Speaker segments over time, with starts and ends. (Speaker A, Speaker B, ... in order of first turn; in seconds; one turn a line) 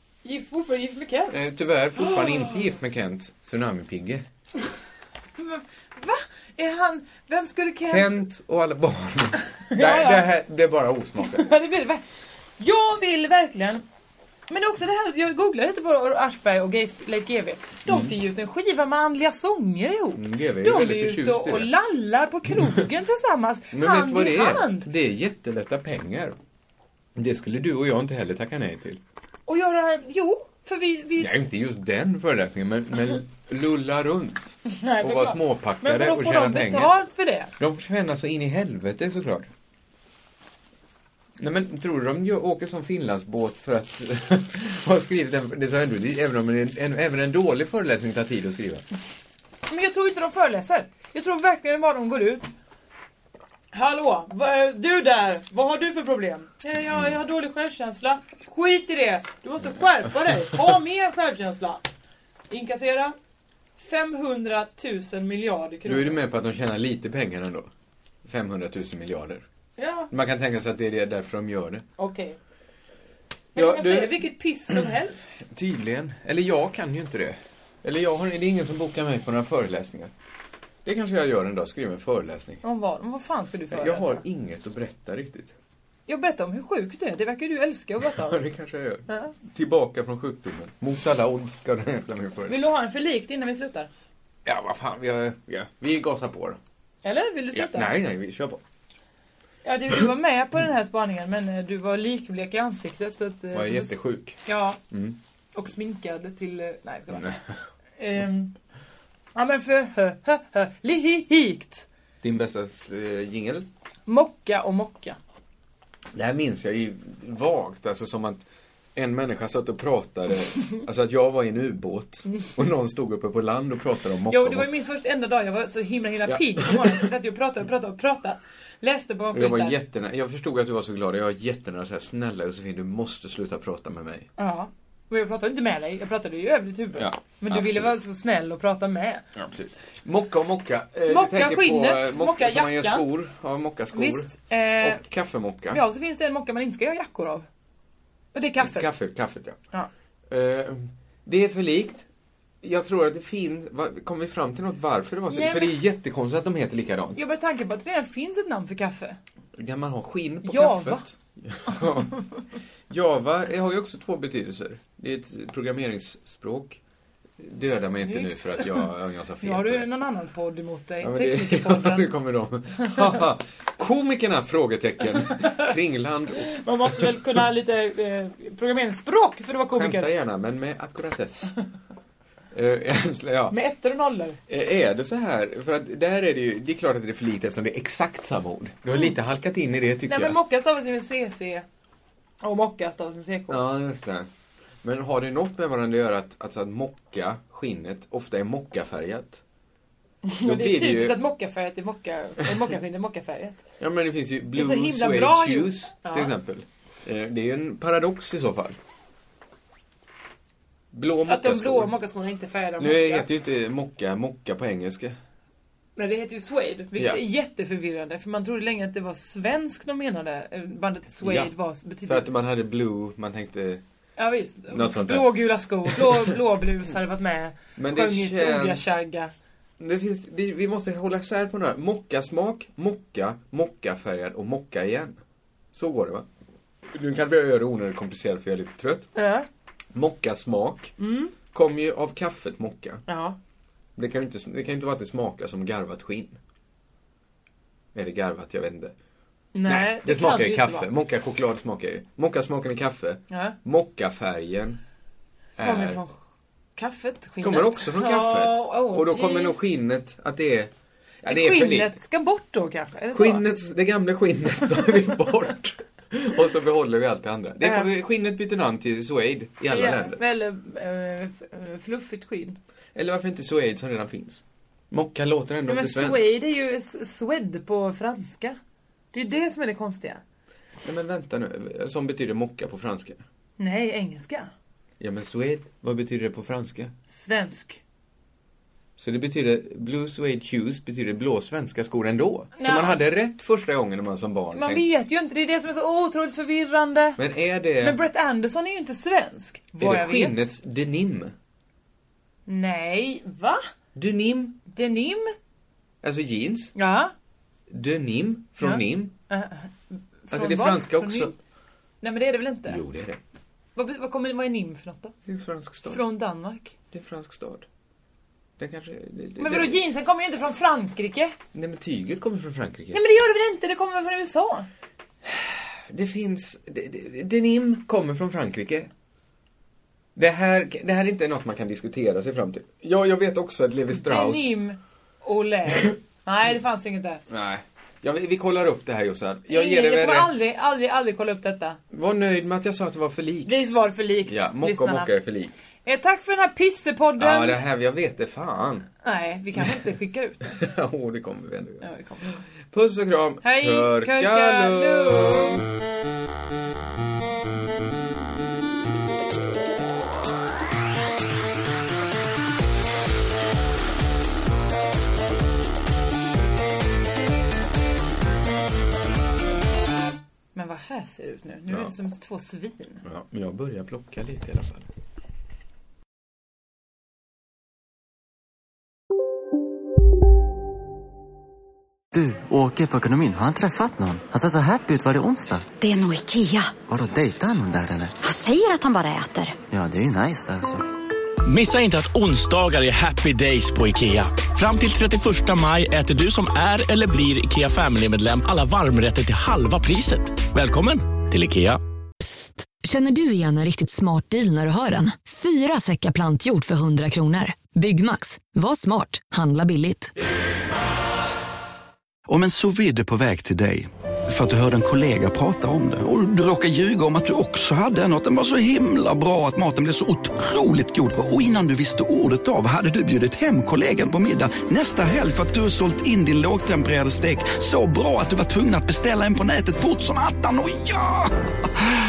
Speaker A: 0.2-1.4
Speaker B: 1.3-4.2
Speaker A: 1.9-2.6
Speaker A: 5.4-8.2
Speaker B: 7.9-11.5
Speaker A: 9.7-10.2
Speaker A: 11.3-12.0
Speaker A: 12.6-13.8
Speaker A: 14.5-24.9
Speaker B: 17.9-18.1
Speaker B: 20.1-21.7
Speaker B: 23.7-26.4
Speaker B: 27.1-29.0
Speaker A: 29.5-31.3
Speaker B: 31.2-36.9
Speaker A: 34.7-37.5
Speaker B: 37.6-39.5
Speaker B: 41.4-48.8
Speaker A: 49.7-52.5
Speaker A: 53.7-61.8
Speaker A: 62.5-63.1
Speaker A: 63.8-66.2
Speaker B: 65.8-67.7
Speaker B: 68.2-69.4
Speaker A: 69.8-70.1
Speaker B: 70.1-71.8
Speaker A: 72.0-72.4
Speaker B: 73.5-74.3
Speaker A: 73.5-75.4
Speaker B: 75.4-80.1
Speaker B: 80.8-82.6
Speaker A: 82.6-84.2
Speaker B: 83.7-85.5
Speaker A: 86.1-88.4
Speaker B: 88.0-92.6
Speaker A: 89.1-89.3
Speaker A: 92.5-93.9
Speaker B: 94.4-96.6
Speaker A: 97.0-98.0
Speaker B: 97.5-98.6
Speaker A: 99.6-104.8
Speaker B: 103.5-104.4
Speaker B: 104.9-105.2
Speaker A: 105.5-107.4
Speaker B: 107.1-107.4
Speaker A: 108.0-108.5
Speaker A: 109.3-111.8
Speaker B: 112.2-113.7
Speaker A: 114.1-115.2
Speaker B: 116.1-124.7
Speaker A: 124.3-129.8
Speaker B: 126.2-127.1
Speaker B: 129.3-134.3
Speaker A: 134.4-139.2
Speaker B: 136.9-137.9
Speaker B: 139.3-145.8
Speaker A: 141.1-143.1
Speaker A: 143.9-145.0
Speaker A: 145.7-147.5
Speaker A: 148.3-148.9
Speaker B: 148.6-149.6
Speaker B: 150.3-152.1
Speaker B: 152.6-157.2
Speaker A: 155.3-155.8
Speaker A: 157.2-159.2
Speaker B: 159.6-162.2
Speaker A: 160.4-161.1
Speaker B: 162.9-166.8
Speaker B: 167.4-169.9
Speaker A: 167.6-168.8
Speaker A: 169.4-172.1
Speaker B: 171.0-176.5
Speaker A: 172.8-173.1
Speaker A: 176.4-180.1
Speaker B: 179.7-181.6
Speaker B: 182.5-183.6
Speaker A: 183.5-184.4
Speaker B: 184.5-190.3
Speaker A: 190.1-191.7
Speaker A: 192.4-193.6
Speaker B: 193.5-194.3
Speaker B: 194.8-199.4
Speaker A: 200.2-203.6
Speaker B: 200.4-201.2
Speaker B: 203.8-208.8
Speaker A: 204.5-206.3
Speaker B: 210.9-211.9
Speaker A: 211.3-213.3
Speaker B: 212.8-215.2
Speaker A: 215.9-222.3
Speaker B: 216.9-217.2
Speaker B: 221.2-221.5
Speaker B: 222.1-223.8
Speaker A: 224.2-229.3
Speaker B: 224.7-226.3
Speaker B: 227.8-228.9
Speaker B: 229.8-235.2
Speaker B: 235.7-236.3
Speaker B: 236.9-239.1
Speaker A: 239.1-239.5
Speaker B: 239.9-240.9
Speaker A: 241.0-241.3
Speaker B: 241.5-243.0
Speaker A: 243.1-243.4
Speaker B: 243.9-246.4
Speaker B: 247.9-248.9
Speaker A: 249.5-250.9
Speaker B: 249.6-254.8
Speaker A: 253.3-253.6
Speaker B: 255.6-256.0
Speaker A: 255.6-256.2
Speaker A: 256.8-259.6
Speaker B: 257.4-260.7
Speaker B: 261.2-261.9
Speaker A: 261.2-263.5
Speaker B: 263.1-270.2
Speaker A: 267.6-267.9
Speaker A: 269.7-272.6
Speaker B: 272.9-276.2
Speaker A: 275.6-278.6
Speaker A: 279.1-280.2
Speaker B: 280.8-283.2
Speaker A: 283.6-284.5
Speaker B: 285.0-286.9
Speaker A: 287.1-287.8
Speaker B: 289.0-294.9
Speaker A: 292.6-293.0
Speaker A: 294.5-297.2
Speaker B: 297.2-298.0
Speaker A: 297.8-300.5
Speaker B: 299.8-301.3
Speaker A: 302.5-303.6
Speaker B: 303.9-304.6
Speaker A: 304.7-305.3
Speaker B: 306.0-306.7
Speaker A: 306.7-307.1
Speaker B: 307.7-309.1
Speaker A: 308.6-311.4
Speaker B: 310.3-311.3
Speaker A: 312.0-312.8
Speaker B: 312.7-313.2
Speaker A: 313.8-315.1
Speaker B: 315.2-316.0
Speaker A: 315.9-316.7
Speaker B: 316.9-317.6
Speaker B: 318.6-319.8
Speaker A: 319.4-321.3
Speaker B: 321.5-323.0
Speaker A: 322.9-324.7
Speaker B: 325.2-328.9
Speaker B: 330.1-334.6
Speaker A: 333.9-337.2
Speaker B: 337.3-340.4
Speaker A: 339.5-341.8
Speaker B: 341.9-343.7
Speaker A: 343.4-345.1
Speaker B: 344.2-345.5
Speaker A: 345.8-347.6
Speaker B: 347.2-348.9
Speaker A: 349.0-350.6
Speaker B: 350.4-355.7
Speaker A: 351.8-352.4
Speaker A: 353.4-355.7
Speaker A: 370.5-373.0
Speaker B: 373.0-374.9
Speaker C: 382.1-385.6
Speaker D: 384.4-385.0
Speaker E: 385.8-386.8
Speaker C: 386.9-388.1
Speaker D: 387.1-387.9
Speaker E: 388.2-389.6
Speaker C: 389.7-390.8
Speaker D: 390.0-390.5
Speaker D: 391.4-401.8
Speaker F: 402.2-410.1
Speaker G: 412.3-431.3